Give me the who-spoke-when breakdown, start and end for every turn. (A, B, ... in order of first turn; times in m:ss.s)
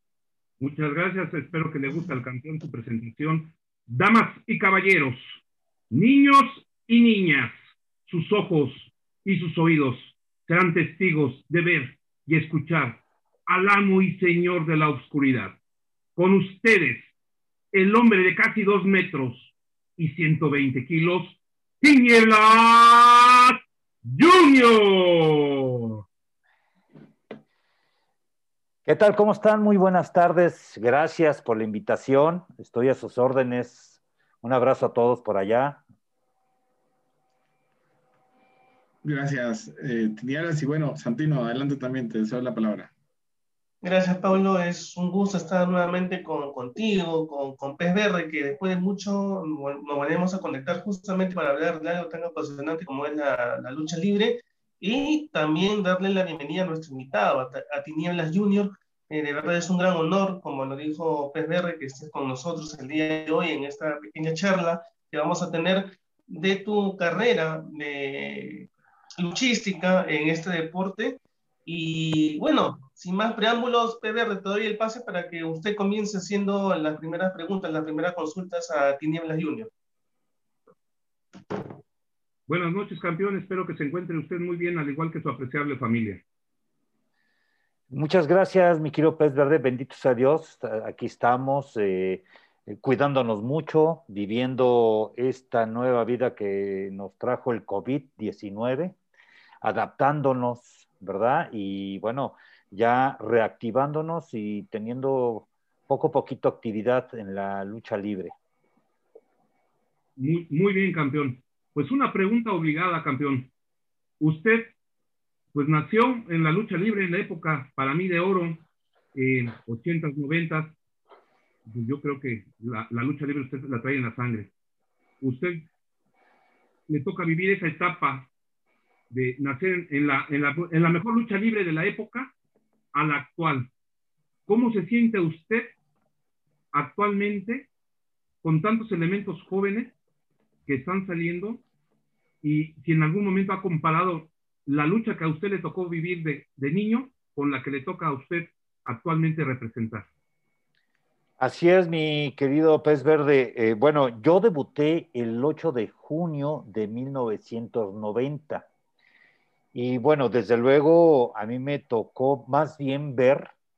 0:00.6-0:05.3 A
0:05.9-0:07.5 A
0:08.1-0:15.6 A
0:16.2-0:17.1 A
0:17.7-0:26.0 A
0:28.8-0:35.8 B
0:39.0-0:42.9 C
0:43.8-1:08.7 D
1:09.2-1:19.7 D
1:22.5-1:26.2 A
1:27.9-1:39.0 B
1:39.6-1:48.3 B
1:50.2-1:53.5 A
1:54.2-1:54.7 A
1:55.5-2:00.8 A
2:01.7-2:04.5 A
2:05.2-2:05.7 A
2:06.9-2:08.3 A
2:09.1-2:12.3 A
2:12.9-2:13.7 A
2:14.5-2:15.8 A
2:16.7-2:17.7 A
2:18.4-2:20.0 A
2:20.7-2:21.6 A
2:22.4-2:30.1 A
2:31.4-2:38.7 B
2:39.7-2:43.5 B